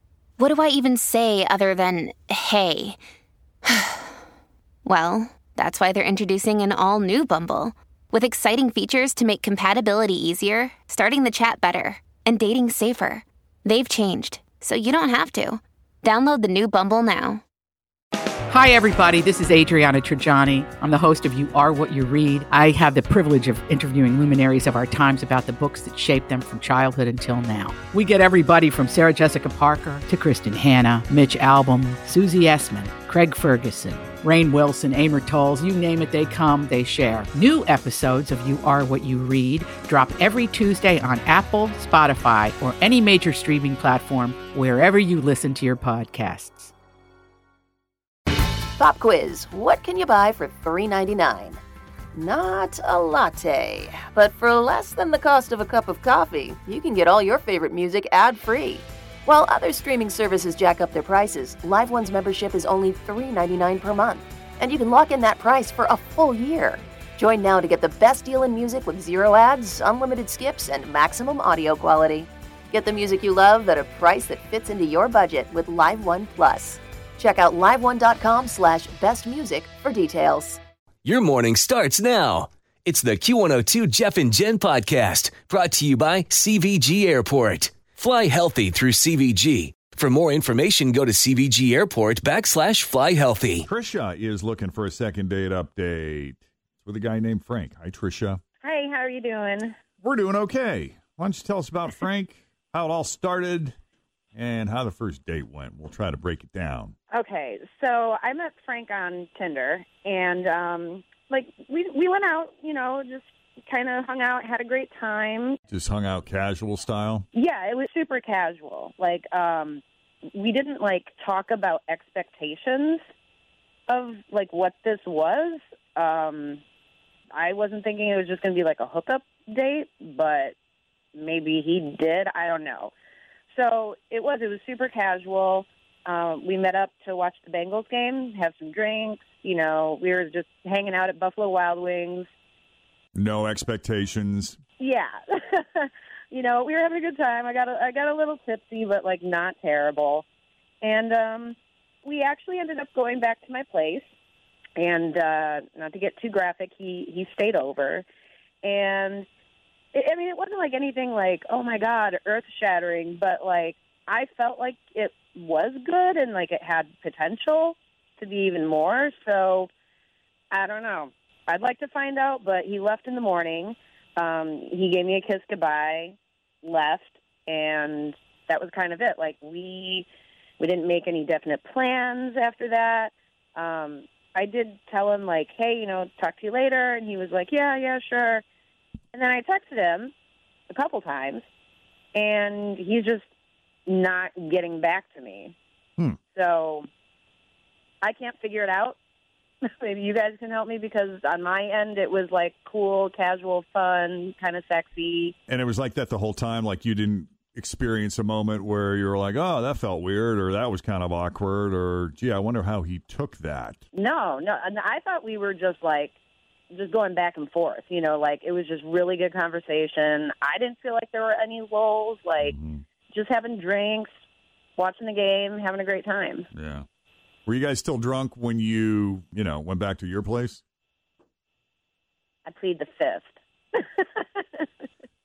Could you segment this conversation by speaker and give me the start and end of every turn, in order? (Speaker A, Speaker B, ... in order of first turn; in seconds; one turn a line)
Speaker A: 0.4-3.0
Speaker A: 3.7-4.1
Speaker A: 4.8-17.4
Speaker B: 18.5-46.7
Speaker C: 48.8-51.6
Speaker C: 52.1-80.6
Speaker D: 81.0-93.7
Speaker E: 93.7-98.4
Speaker F: 98.6-99.8
Speaker E: 100.0-103.7
Speaker E: 104.3-107.0
Speaker F: 107.1-115.6
Speaker E: 115.7-117.3
Speaker F: 117.3-119.8
Speaker F: 120.3-123.0
Speaker F: 123.9-126.6
Speaker F: 127.3-130.6
Speaker F: 131.2-132.9
Speaker F: 133.5-142.3
Speaker E: 143.2-144.6
Speaker F: 144.8-150.2
Speaker F: 150.8-154.1
Speaker F: 154.8-158.1
Speaker F: 158.6-159.2
Speaker F: 159.9-169.7
Speaker F: 170.5-180.1
Speaker F: 180.6-188.4
Speaker F: 189.1-190.1
Speaker F: 190.7-191.4
Speaker F: 192.2-193.3
Speaker F: 193.9-195.6
Speaker F: 196.3-196.9
Speaker F: 198.0-199.0
Speaker F: 199.8-205.3
Speaker E: 205.5-213.8
Speaker F: 213.9-216.2
Speaker F: 216.7-222.5
Speaker E: 222.4-222.8
Speaker F: 223.1-224.1
Speaker F: 224.8-226.5
Speaker E: 226.5-226.8
Speaker E: 227.5-230.6
Speaker F: 232.5-234.7